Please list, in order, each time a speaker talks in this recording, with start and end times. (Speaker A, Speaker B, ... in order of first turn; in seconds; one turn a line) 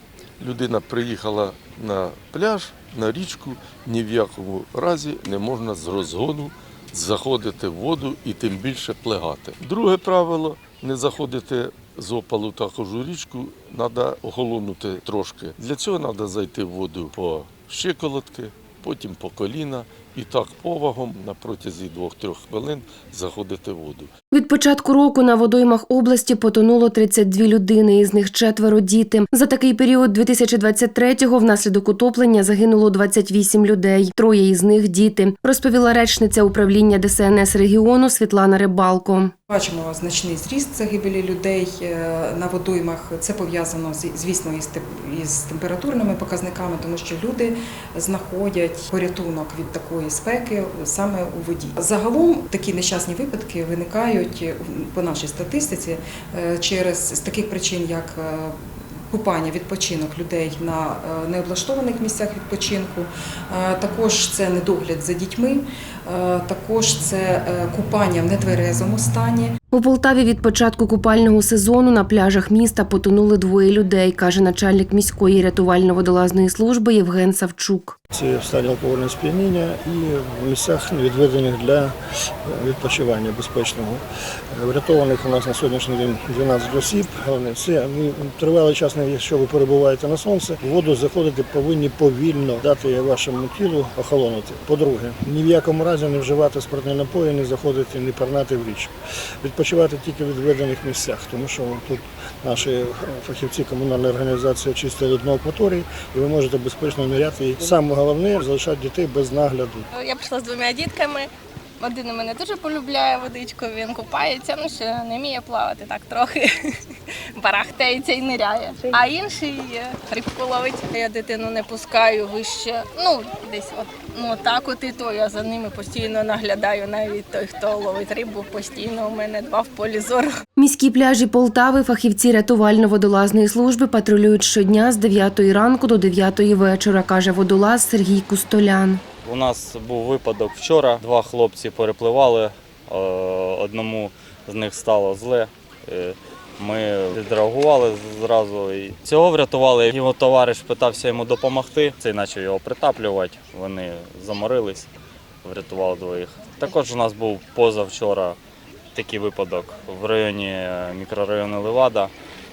Speaker A: 0.4-24.1
Speaker B: 24.3-39.3
Speaker C: 39.5-58.6
Speaker C: 59.1-69.5
Speaker B: 69.7-78.0
Speaker D: 78.1-109.9
Speaker E: 109.9-111.3
Speaker E: 111.8-116.5
Speaker E: 117.3-130.3
Speaker B: 130.6-139.0
Speaker F: 139.2-154.9
Speaker F: 155.4-158.4
Speaker F: 158.9-162.1